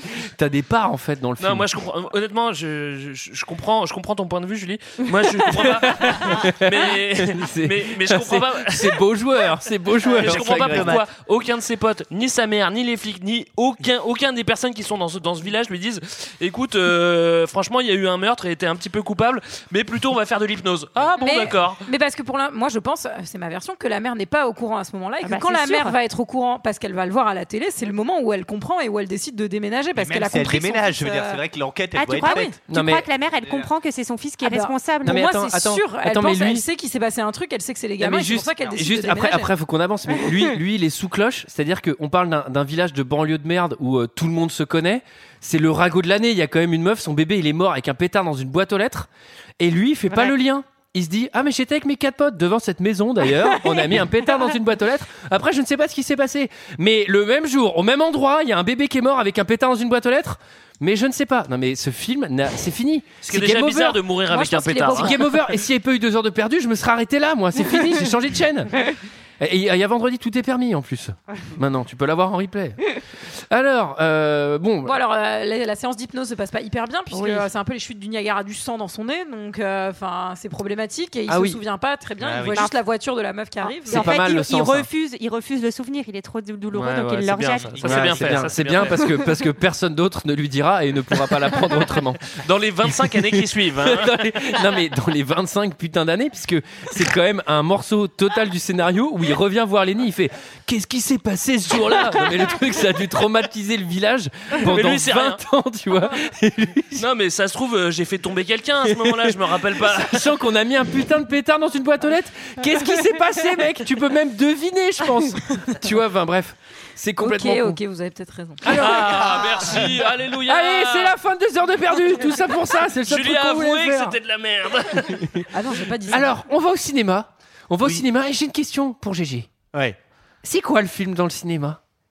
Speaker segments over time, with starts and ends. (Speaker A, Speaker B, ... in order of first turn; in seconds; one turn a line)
Speaker A: 0.2-1.7
Speaker B: 1.4-9.0
Speaker A: 5.6-11.0
Speaker C: 10.1-11.1
Speaker B: 10.2-21.8
Speaker D: 21.1-31.4
Speaker E: 25.2-26.0
Speaker C: 29.9-32.6
Speaker E: 31.9-35.2
Speaker A: 32.7-33.1
Speaker D: 34.4-39.5
Speaker A: 35.0-36.6
Speaker A: 38.0-49.1
Speaker A: 49.6-64.0
Speaker B: 63.2-65.2
Speaker D: 64.3-65.3
Speaker A: 64.9-68.8
Speaker A: 69.4-74.9
Speaker D: 74.8-84.1
Speaker E: 77.1-77.5
Speaker A: 81.3-81.6
Speaker C: 82.2-82.6
Speaker E: 82.5-82.8
Speaker E: 83.6-88.1
Speaker A: 83.9-84.9
Speaker B: 86.7-89.1
Speaker C: 87.7-88.4
Speaker A: 87.8-92.4
Speaker B: 92.4-94.2
Speaker A: 93.1-107.0
Speaker B: 104.6-105.4
Speaker B: 107.0-110.3
Speaker A: 108.9-117.8
Speaker D: 117.2-119.3
Speaker A: 118.6-119.8
Speaker B: 118.7-121.2
Speaker A: 120.5-124.2
Speaker B: 123.0-125.3
Speaker A: 125.2-125.4
Speaker D: 125.5-126.3
Speaker A: 126.1-129.5
Speaker A: 130.4-131.8